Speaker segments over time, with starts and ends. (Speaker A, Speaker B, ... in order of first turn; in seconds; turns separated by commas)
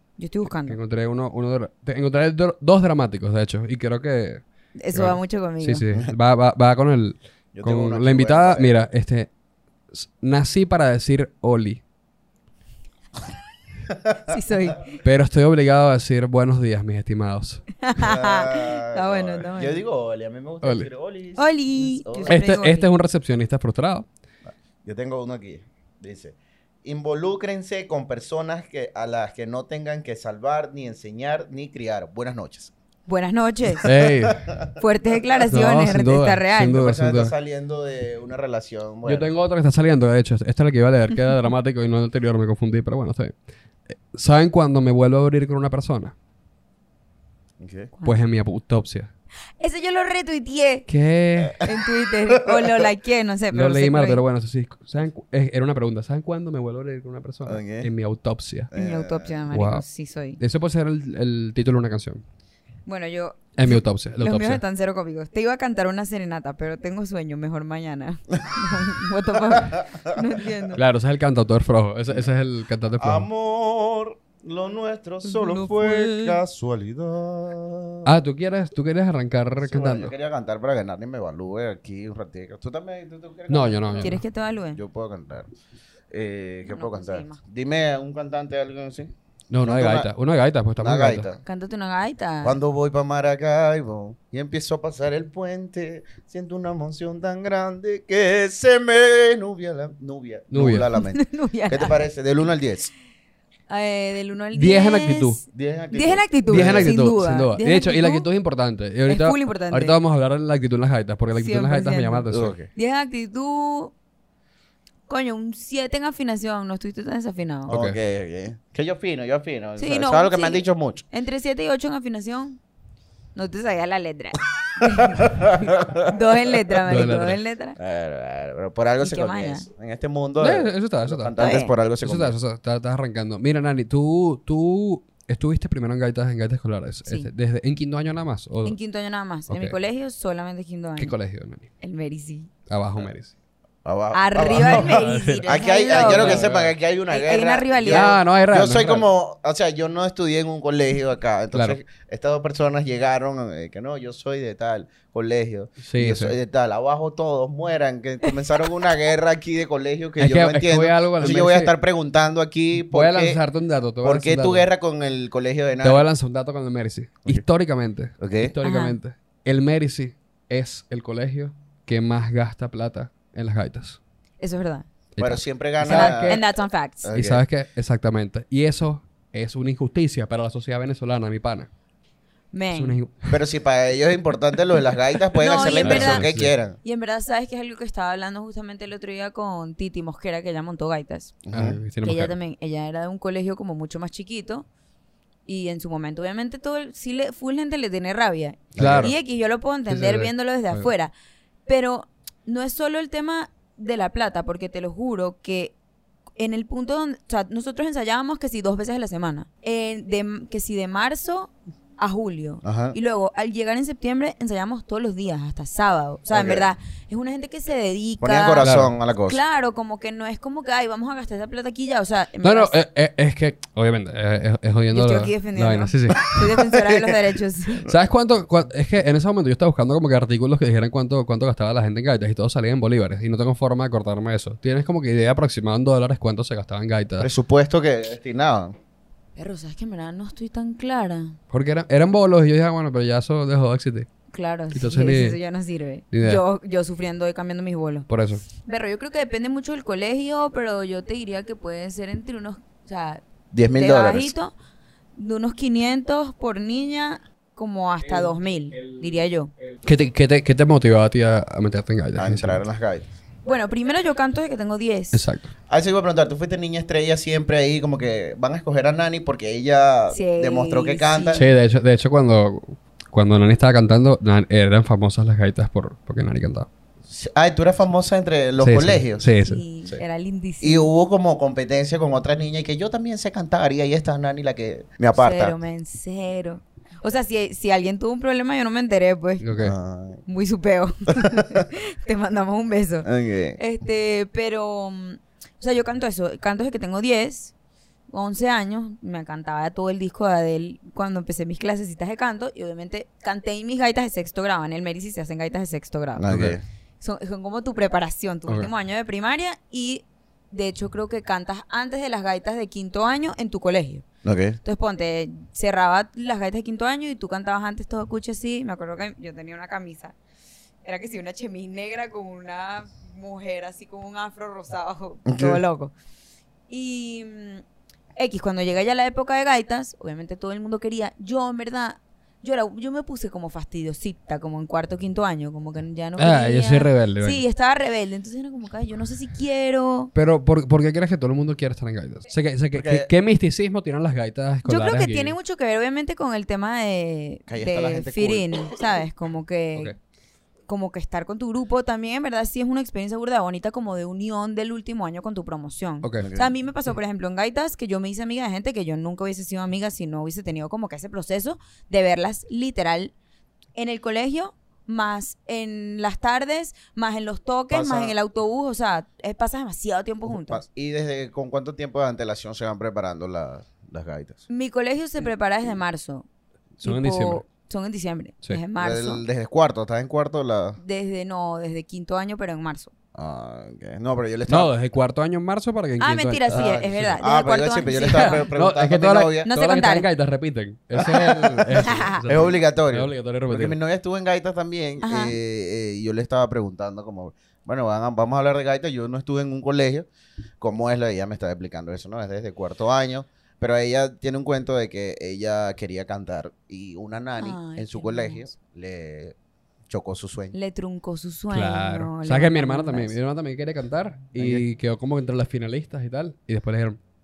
Speaker A: 0.2-0.8, Speaker B: 0.5-9.3, Speaker A: 4.8-5.8, Speaker C: 7.5-8.8, Speaker B: 9.9-11.8, Speaker C: 13.9-14.2, Speaker A: 14.3-15.0, Speaker B: 15.0-17.6, Speaker A: 17.8-19.8, Speaker C: 17.9-22.4, Speaker B: 20.6-20.9, Speaker A: 21.4-22.9, Speaker B: 22.3-24.1, Speaker C: 24.5-32.7, Speaker A: 33.1-33.9, Speaker B: 33.8-34.5, Speaker C: 34.2-34.7, Speaker A: 34.8-36.8, Speaker B: 35.5-37.3, Speaker C: 36.7-39.3, Speaker B: 39.0-43.3, Speaker B: 43.9-46.1, Speaker C: 47.6-47.9, Speaker B: 48.0-49.1, Speaker A: 49.6-50.9, Speaker B: 50.9-51.6, Speaker C: 51.4-52.8, Speaker A: 51.6-54.2, Speaker B: 53.5-58.7, Speaker C: 57.4-57.9, Speaker C: 58.7-59.4, Speaker A: 58.7-60.4, Speaker B: 59.5-59.8, Speaker B: 60.4-62.2, Speaker A: 62.9-70.8, Speaker B: 63.6-64.6, Speaker C: 69.6-70.2, Speaker B: 70.8-73.3, Speaker C: 73.0-78.1, Speaker A: 75.2-76.4, Speaker B: 78.0-80.1, Speaker C: 79.6-84.2, Speaker B: 83.5-84.2, Speaker A: 84.0-84.8, Speaker C: 84.7-85.5, Speaker C: 86.1-89.1, Speaker A: 86.7-87.4, Speaker B: 89.5-91.2, Speaker C: 89.6-90.1, Speaker C: 90.8-91.4, Speaker A: 91.4-92.6, Speaker C: 92.4-102.9, Speaker B: 100.5-100.9, Speaker A: 100.9-102.0, Speaker A: 103.7-108.2, Speaker B: 104.5-105.4, Speaker C: 105.5-106.9, Speaker B: 106.5-112.5, Speaker A: 109.0-110.0, Speaker A: 111.3-113.9, Speaker C: 112.3-112.7, Speaker A: 115.1-117.7, Speaker C: 117.7-121.0, Speaker B: 117.7-118.0, Speaker A: 119.8-122.6, Speaker A: 123.3-127.8, Speaker C: 124.8-126.8, Speaker B: 126.9-127.4, Speaker C: 127.8-132.3, Speaker A: 129.0-129.7, Speaker B: 130.4-131.3, Speaker A: 131.4-131.7, Speaker B: 132.0-138.8, Speaker A: 138.6-141.1, Speaker B: 139.5-139.7, Speaker B: 141.0-141.7, Speaker A: 141.8-142.5, Speaker B: 142.7-143.3, Speaker C: 143.8-163.4, Speaker A: 144.1-146.5, Speaker B: 144.4-146.7, Speaker A: 147.1-148.2, Speaker B: 147.9-149.1, Speaker B: 151.5-151.8, Speaker B: 155.8-156.3, Speaker B: 160.2-161.7, Speaker B: 162.8-164.7, Speaker C: 164.0-166.0, Speaker B: 165.8-174.0, Speaker C: 168.2-168.5, Speaker A: 168.6-168.9, Speaker A: 174.4-174.9, Speaker B: 175.2-176.4, Speaker C: 175.2-176.4, Speaker A: 175.8-177.1, Speaker C: 177.0-177.4, Speaker B: 177.1-181.7, Speaker A: 182.5-183.0, Speaker B: 182.7-183.4, Speaker C: 183.3-186.8, Speaker A: 185.4-191.4, Speaker B: 185.8-186.5, Speaker C: 191.4-191.8, Speaker B: 191.5-192.3, Speaker A: 192.0-194.7, Speaker A: 195.4-201.1, Speaker C: 198.7-199.1, Speaker B: 198.8-199.1, Speaker B: 199.9-200.9, Speaker A: 201.7-205.7, Speaker A: 206.4-222.7, Speaker C: 212.6-212.9, Speaker C: 216.3-216.7, Speaker C: 218.2-219.4, Speaker B: 218.6-218.9, Speaker B: 222.4-226.3, Speaker A: 224.9-227.8, Speaker C: 226.6-227.2, Speaker B: 227.8-237.3, Speaker C: 237.2-238.7, Speaker A: 239.3-241.4, Speaker B: 241.5-244.1, Speaker A: 244.3-253.2, Speaker B: 244.7-245.4, Speaker B: 246.1-246.4, Speaker B: 248.1-248.4, Speaker C: 253.5-254.3, Speaker A: 253.8-254.5, Speaker A: 255.2-259.5, Speaker B: 259.8-262.6, Speaker C: 262.2-263.1, Speaker A: 263.4-265.2, Speaker B: 265.1-265.5, Speaker C: 265.7-271.4, Speaker A: 270.1-271.4, Speaker B: 271.3-276.7, Speaker C: 277.1-279.2, Speaker B: 278.6-280.0, Speaker A: 279.3-280.9, Speaker C: 280.6-285.5, Speaker A: 285.1-289.4, Speaker B: 289.4-289.7, Speaker C: 289.6-290.2, Speaker A: 290.2-297.5, Speaker C: 291.1-291.6, Speaker C: 293.0-293.6, Speaker A: 298.1-306.4, Speaker C: 306.2-306.6, Speaker B: 306.3-306.6, Speaker A: 307.0-314.1, Speaker C: 314.2-314.6, Speaker A: 314.6-320.1, Speaker A: 320.8-325.9, Speaker C: 325.3-325.6, Speaker A: 326.7-327.6, Speaker A: 328.1-340.1, Speaker B: 336.2-337.4, Speaker B: 340.1-345.4, Speaker C: 342.7-343.1, Speaker A: 344.6-349.9, Speaker C: 347.5-348.8, Speaker A: 350.7-363.1, Speaker B: 356.0-356.3, Speaker C: 356.2-356.5, Speaker A: 363.8-370.6, Speaker C: 367.7-368.1, Speaker C: 370.2-374.4, Speaker A: 374.5-376.2, Speaker B: 376.8-377.4, Speaker A: 376.8-379.2, Speaker C: 378.8-380.8, Speaker A: 380.8-382.9, Speaker C: 383.1-384.7, Speaker B: 384.5-387.2, Speaker A: 386.0-388.5, Speaker C: 386.5-389.5, Speaker B: 388.2-393.8, Speaker A: 389.4-390.1, Speaker C: 391.1-391.7, Speaker A: 391.8-392.2, Speaker C: 392.2-400.1, Speaker A: 395.0-395.4, Speaker C: 400.6-409.3, Speaker A: 407.4-408.4, Speaker C: 409.9-410.5, Speaker A: 410.5-413.1, Speaker B: 411.5-417.0, Speaker C: 414.3-414.6